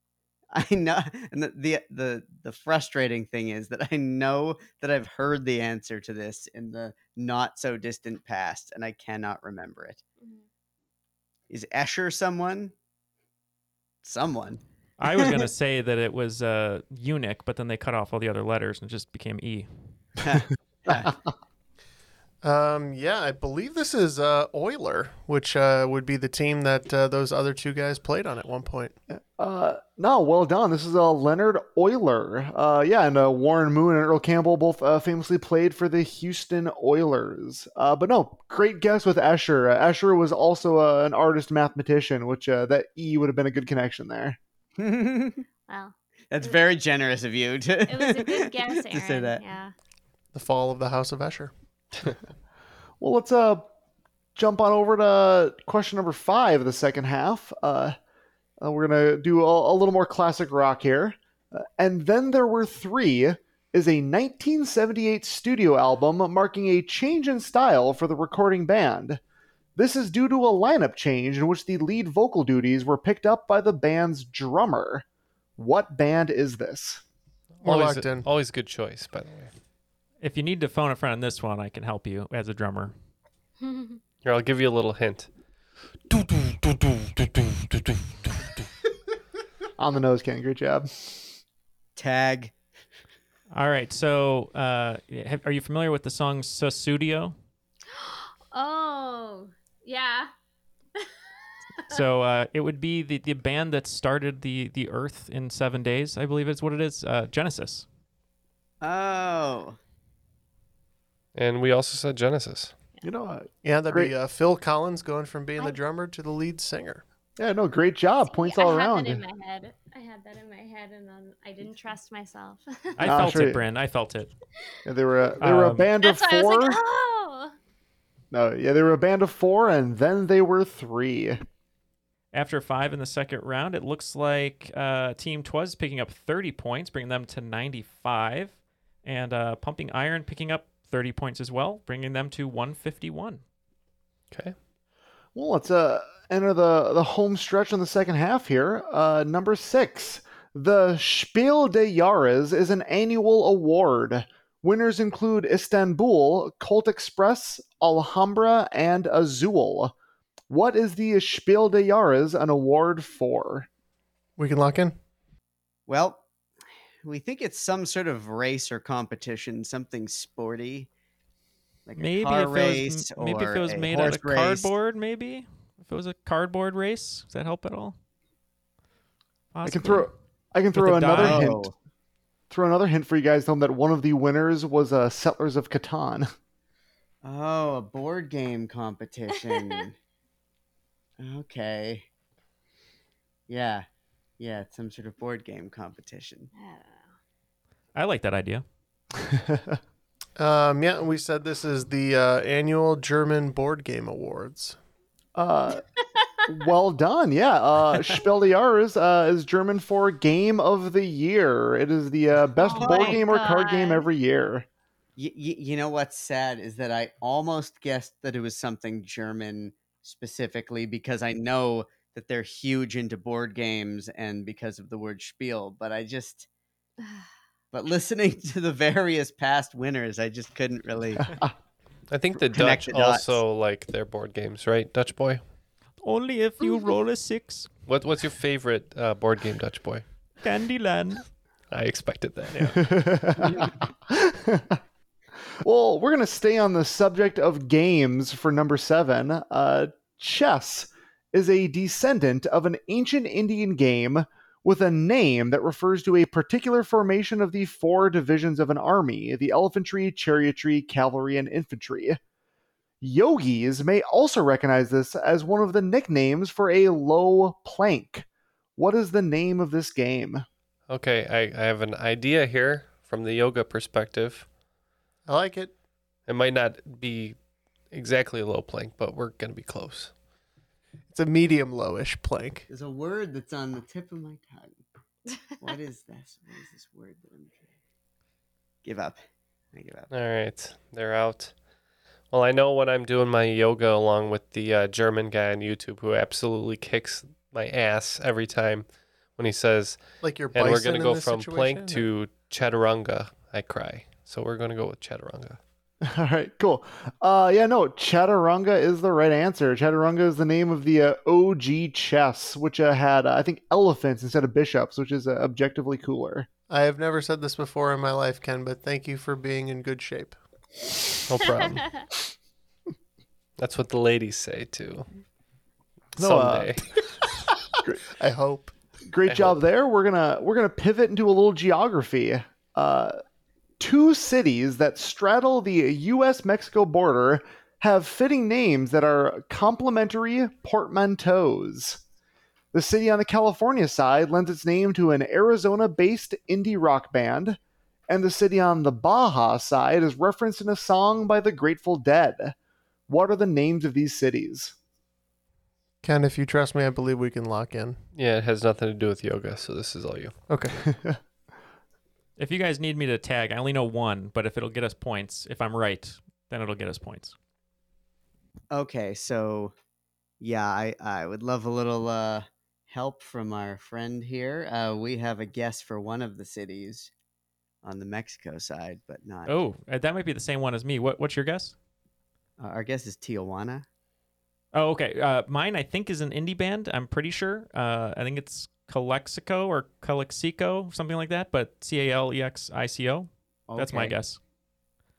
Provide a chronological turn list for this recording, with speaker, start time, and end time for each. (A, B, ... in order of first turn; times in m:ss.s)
0:00.5-0:10.0 A
0:11.5-0:12.7 A
0:14.0-0:15.3 A
0:15.0-0:19.9 B
0:20.2-0:21.1 A
0:22.4-0:29.0 C
0:29.1-0:44.4 D
0:44.8-0:45.4 A
0:45.7-0:46.6 E
0:46.3-0:49.4 A
0:47.9-0:49.7 E
0:50.3-0:51.5 C
0:53.0-0:53.7 D
0:54.4-0:58.0 D
0:58.6-1:09.2 D
1:09.8-1:15.0 D
1:15.6-1:17.0 D
1:17.6-1:19.5 F
1:17.6-1:18.3 C
1:20.2-1:23.0 B
1:23.6-1:24.0 E
1:24.2-1:25.3 F
1:26.1-1:28.0 F
1:29.8-1:31.4 D
1:32.0-1:32.5 A
1:33.5-1:37.4 B
1:37.9-1:40.3 E
1:41.9-1:47.9 B
1:48.8-1:49.8 A
1:51.4-1:52.8 F
1:53.0-1:54.2 D
1:53.6-1:57.0 C
1:57.4-1:59.2 D
1:58.3-2:02.6 E
2:03.0-2:04.3 B
2:03.0-2:03.6 D
2:04.9-2:06.8 D
2:05.4-2:05.9 B
2:06.0-2:07.5 E
2:08.3-2:11.4 D
2:12.3-2:23.4 B
2:25.4-2:39.9 D
2:40.5-2:43.7 D
2:44.4-2:45.0 C
2:45.9-2:46.3 A
2:47.0-2:50.9 A
2:51.9-2:54.7 A
2:52.0-2:58.0 B
2:59.5-3:00.1 B
2:59.6-3:01.7 D
3:00.8-3:01.5 B
3:01.2-3:01.7 A
3:02.5-3:06.3 D
3:07.2-3:10.0 A
3:11.2-3:12.1 A
3:13.5-3:13.9 A
3:14.4-3:16.5 A
3:16.6-3:17.1 E
3:18.0-3:18.6 B
3:19.2-3:19.8 D
3:20.4-3:24.8 C
3:25.4-3:25.8 D
3:26.5-3:34.7 D
3:32.6-3:34.0 E
3:32.8-3:33.2 A
3:35.2-3:46.5 A
3:47.7-3:51.3 A
3:52.1-3:55.4 F
3:52.5-3:53.4 A
3:56.0-3:57.7 B
3:57.9-4:00.0 F
4:00.4-4:01.3 B
4:01.7-4:02.7 F
4:02.8-4:04.8 D
4:05.6-4:22.2 D
4:23.0-4:30.4 D
4:30.9-4:34.5 F
4:35.3-4:35.7 C
4:36.3-4:37.4 F
4:37.9-4:40.1 F
4:41.1-4:42.7 C
4:42.7-4:44.8 A
4:45.6-4:47.7 A
4:48.8-4:49.2 A
4:49.7-4:50.1 A
4:50.1-4:51.5 F
4:52.3-5:05.6 F
5:00.2-5:02.1 C
5:06.0-5:16.5 D
5:16.7-5:20.4 C
5:21.3-5:22.0 F
5:21.7-5:22.0 E
5:23.6-5:25.1 F
5:26.2-5:26.9 F
5:26.2-5:26.8 D
5:28.2-5:28.7 C
5:29.1-5:33.2 D
5:29.3-5:29.6 F
5:33.8-5:42.0 D
5:42.7-5:52.6 D
5:53.1-5:54.8 D
5:56.0-5:58.0 C
5:58.2-6:00.4 F
6:00.5-6:00.8 C
6:02.4-6:07.4 B
6:08.7-6:09.7 A
6:10.4-6:17.1 A
6:17.8-6:19.5 A
6:19.5-6:21.8 B
6:22.6-6:23.9 A
6:24.7-6:34.4 B
6:33.7-6:34.2 A